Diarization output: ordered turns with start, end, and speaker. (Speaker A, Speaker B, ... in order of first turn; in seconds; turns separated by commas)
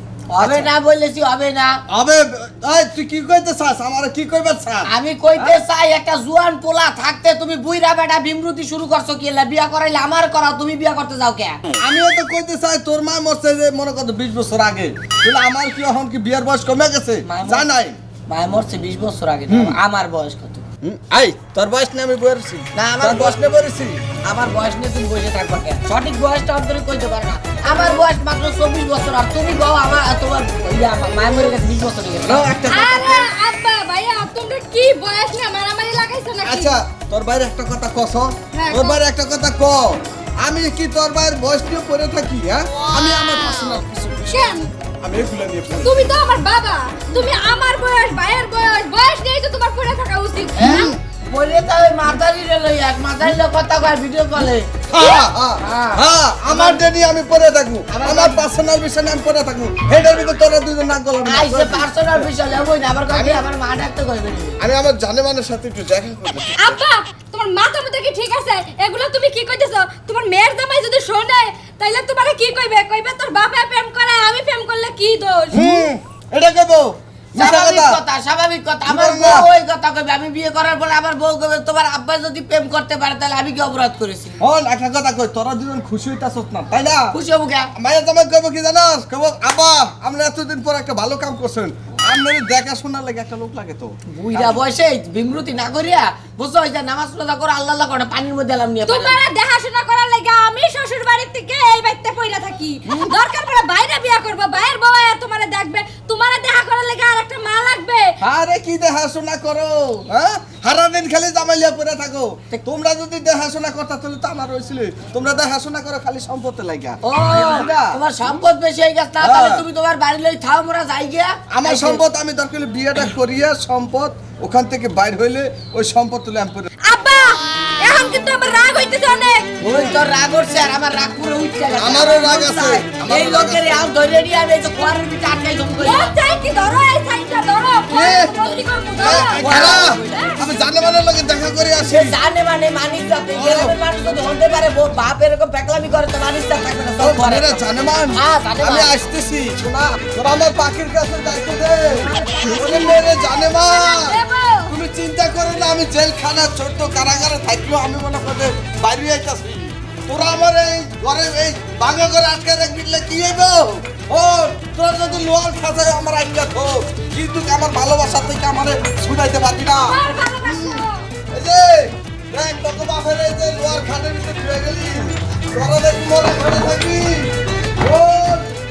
Speaker A: 0.3-1.8, Speaker B: 0.4-0.7, Speaker B: 1.9-5.6, Speaker A: 4.9-11.6, Speaker B: 11.8-18.0, Speaker A: 17.3-17.7, Speaker A: 18.3-20.7, Speaker B: 19.5-19.8, Speaker B: 20.8-24.0, Speaker A: 22.8-23.4, Speaker A: 24.3-32.6, Speaker B: 32.2-33.3, Speaker C: 32.7-36.7, Speaker B: 36.4-46.2, Speaker C: 38.6-39.0, Speaker C: 44.3-44.6, Speaker C: 45.8-50.9, Speaker A: 50.6-54.7, Speaker B: 50.6-51.0, Speaker B: 54.9-62.3, Speaker C: 55.0-55.2, Speaker A: 55.6-56.9, Speaker A: 57.9-58.5, Speaker A: 61.3-64.6, Speaker B: 63.1-63.5, Speaker B: 64.6-66.8, Speaker C: 66.6-75.9, Speaker B: 75.5-78.0, Speaker A: 77.3-84.4, Speaker B: 78.8-79.5, Speaker B: 84.4-87.2, Speaker A: 87.1-87.7, Speaker B: 87.8-94.6, Speaker A: 94.1-99.2, Speaker C: 98.9-108.1, Speaker B: 102.9-103.1, Speaker B: 108.2-118.0, Speaker A: 117.0-122.0, Speaker B: 119.2-119.7, Speaker B: 121.5-126.7, Speaker C: 126.8-129.5, Speaker A: 129.6-136.1, Speaker B: 129.7-130.0, Speaker B: 131.8-133.9, Speaker C: 135.8-140.3, Speaker B: 137.9-138.4, Speaker B: 139.0-142.2, Speaker A: 139.2-140.4, Speaker A: 141.8-147.6, Speaker B: 143.3-143.8, Speaker B: 147.0-178.5, Speaker A: 148.2-148.9, Speaker A: 152.0-153.1, Speaker C: 153.3-154.7, Speaker C: 169.7-171.1